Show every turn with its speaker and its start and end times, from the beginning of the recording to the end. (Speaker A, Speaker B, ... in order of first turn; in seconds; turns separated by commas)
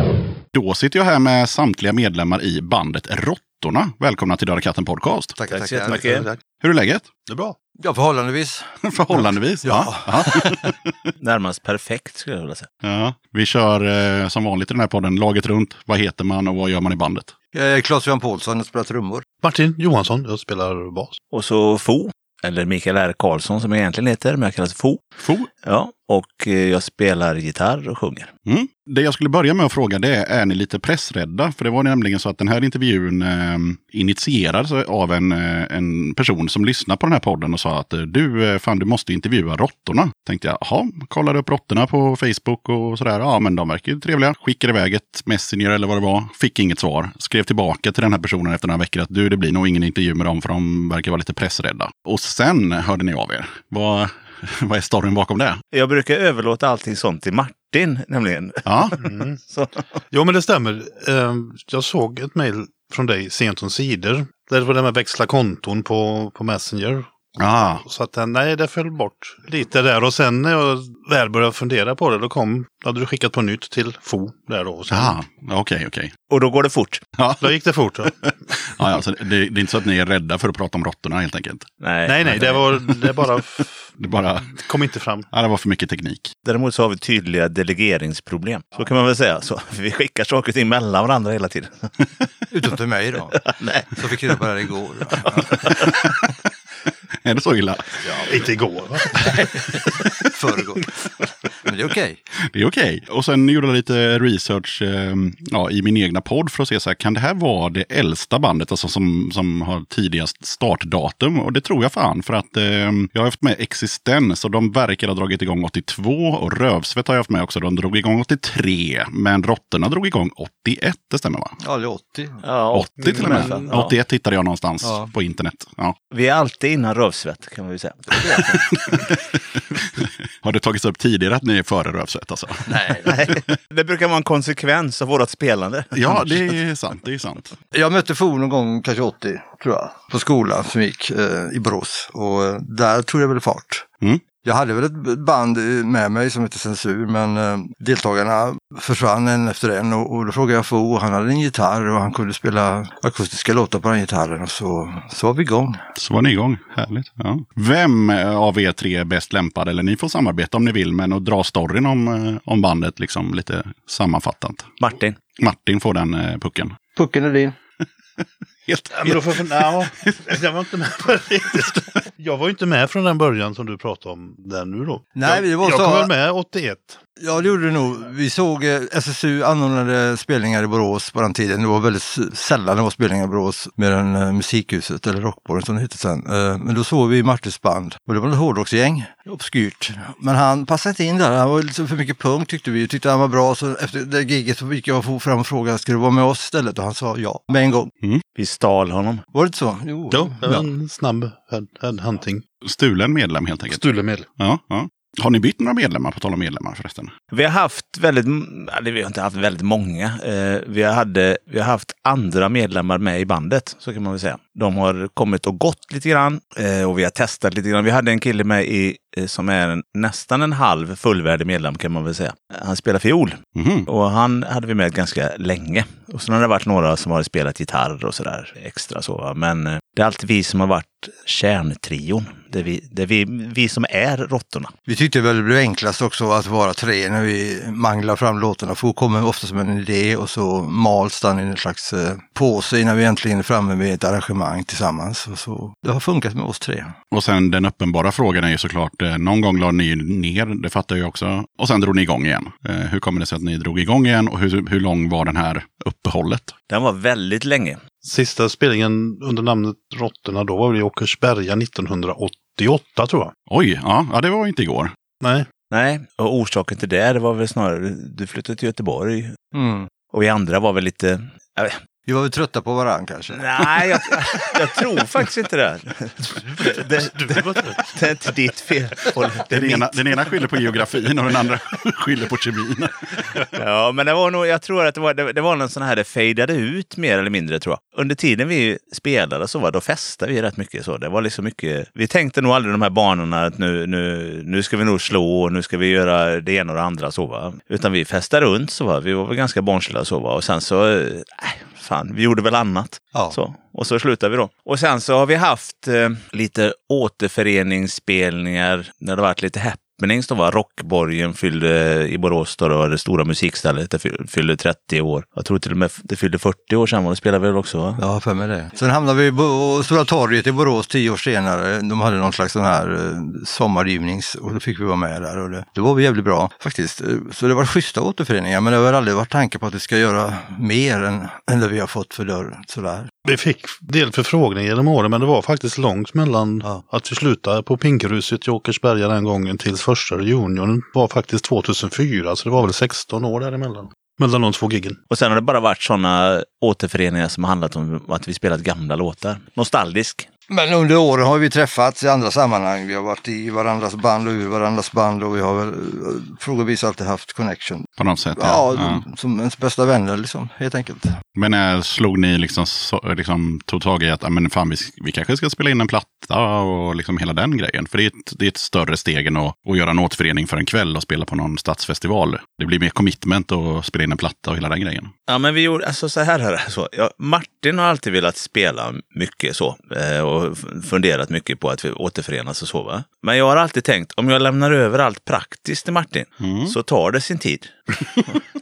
Speaker A: 0.5-5.3, Speaker B: 5.4-6.1, Speaker C: 5.5-6.3, Speaker D: 5.9-6.4, Speaker A: 6.6-7.1, Speaker D: 7.3-7.5, Speaker B: 7.8-10.7, Speaker A: 8.8-11.1, Speaker C: 11.2-12.7, Speaker A: 12.8-17.3, Speaker B: 17.5-19.3, Speaker D: 19.4-21.2, Speaker C: 21.3-25.1, Speaker A: 25.2-25.5, Speaker C: 25.6-28.3, Speaker A: 28.4-55.6, Speaker C: 55.7-59.8, Speaker A: 58.6-59.0, Speaker D: 59.0-59.4, Speaker D: 60.1-67.1, Speaker A: 67.4-67.8, Speaker D: 67.8-75.2, Speaker A: 74.9-76.2, Speaker C: 76.3-77.0, Speaker A: 77.2-81.7, Speaker D: 77.4-78.2, Speaker C: 81.8-82.6, Speaker D: 82.0-83.9, Speaker A: 84.0-84.5, Speaker D: 84.5-85.3, Speaker A: 85.3-86.3, Speaker C: 86.4-91.9, Speaker B: 92.5-93.4, Speaker C: 93.4-94.0, Speaker B: 94.0-95.5, Speaker A: 95.7-96.1, Speaker A: 97.2-98.1, Speaker D: 98.2-99.2, Speaker B: 100.3-100.9, Speaker B: 101.6-102.2, Speaker A: 102.5-121.6, Speaker B: 121.6-122.4, Speaker C: 122.4-123.9, Speaker A: 122.7-125.9, Speaker D: 123.0-123.3, Speaker B: 123.3-123.7, Speaker B: 124.8-125.1, Speaker C: 126.1-128.6, Speaker A: 128.4-133.4, Speaker B: 132.7-133.1, Speaker C: 133.1-136.4, Speaker A: 135.9-137.5, Speaker B: 137.7-143.8, Speaker B: 144.4-155.8, Speaker A: 155.9-164.8, Speaker C: 164.8-165.2, Speaker A: 165.4-166.8, Speaker B: 166.9-167.6, Speaker A: 168.7-170.3, Speaker D: 168.9-177.0, Speaker B: 175.1-176.1, Speaker B: 177.2-197.9, Speaker C: 198.3-199.2, Speaker B: 199.3-200.5, Speaker D: 200.1-202.4, Speaker A: 202.6-203.8, Speaker D: 203.7-204.3, Speaker A: 204.4-207.1, Speaker C: 207.3-234.7, Speaker A: 223.5-223.9, Speaker B: 234.9-246.9, Speaker A: 247.1-256.5, Speaker C: 256.7-257.8, Speaker D: 258.0-263.3, Speaker A: 263.5-264.9, Speaker D: 265.2-265.5, Speaker C: 265.7-269.4, Speaker B: 269.5-269.9, Speaker C: 270.1-271.8, Speaker B: 272.1-273.9, Speaker C: 273.3-280.0, Speaker D: 277.0-277.8, Speaker A: 279.5-283.4, Speaker C: 283.5-318.0, Speaker B: 318.0-333.1, Speaker D: 333.2-345.0, Speaker C: 345.1-350.3, Speaker B: 350.5-361.2, Speaker A: 358.0-359.0, Speaker A: 361.3-375.1, Speaker C: 375.3-387.8, Speaker A: 386.4-386.8